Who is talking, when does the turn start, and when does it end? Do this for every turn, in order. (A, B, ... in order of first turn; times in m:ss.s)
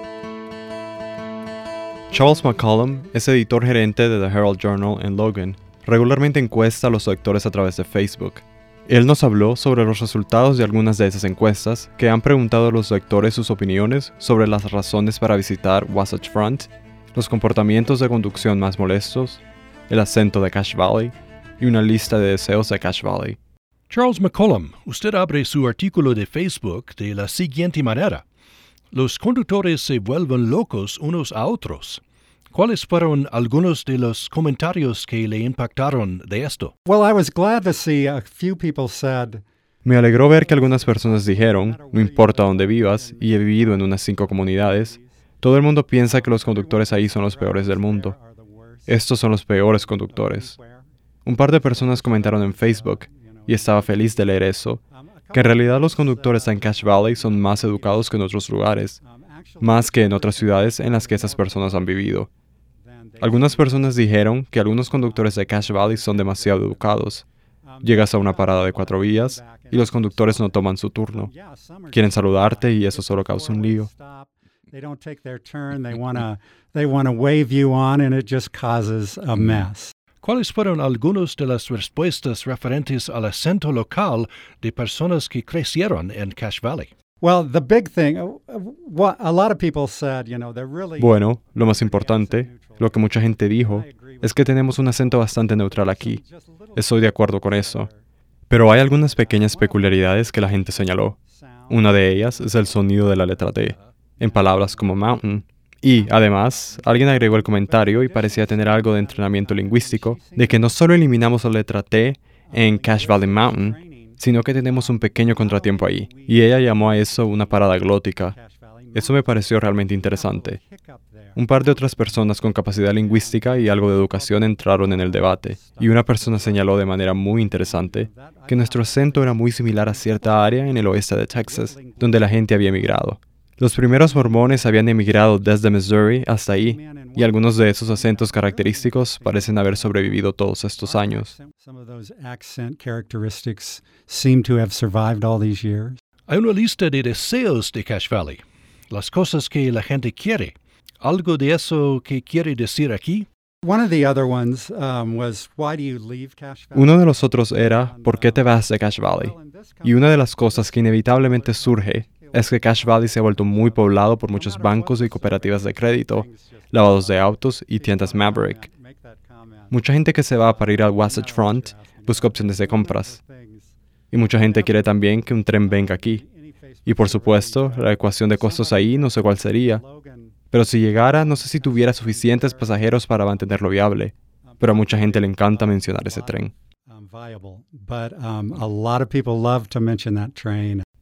0:02.1-0:23.4 A
0:23.9-0:28.2 B
0:28.9-0:36.7 B
0:36.8-0:39.4 C
0:39.8-0:48.1 A
0:40.0-0:45.1 C
0:45.9-0:58.3 C
0:48.9-0:50.5 A
0:51.2-0:54.8 A
0:55.3-0:59.0 A
0:59.0-1:02.0 C
0:59.6-1:02.3 A
1:02.8-1:07.0 C
1:03.2-1:07.2 A
1:07.6-1:19.9 C
1:07.8-1:11.3 A
1:11.9-1:13.9 A
1:20.2-1:26.9 B
1:27.2-1:38.0 C
1:31.0-1:36.2 A
1:36.8-1:37.9 A
1:38.5-1:41.2 A
1:38.6-1:45.2 C
1:41.7-1:58.3 A
1:45.9-1:51.4 C
1:52.5-2:13.0 C
1:58.9-2:00.6 A
2:01.3-2:21.3 A
2:13.9-2:15.3 C
2:16.5-2:26.0 C
2:26.3-2:33.3 B
2:33.6-2:53.7 C
2:36.7-2:39.3 A
2:39.8-2:48.6 A
2:49.7-2:53.2 A
2:54.1-2:56.2 A
2:54.3-3:00.4 C
2:56.8-2:59.8 A
3:00.5-3:06.5 A
3:01.1-3:03.4 C
3:04.5-3:10.8 C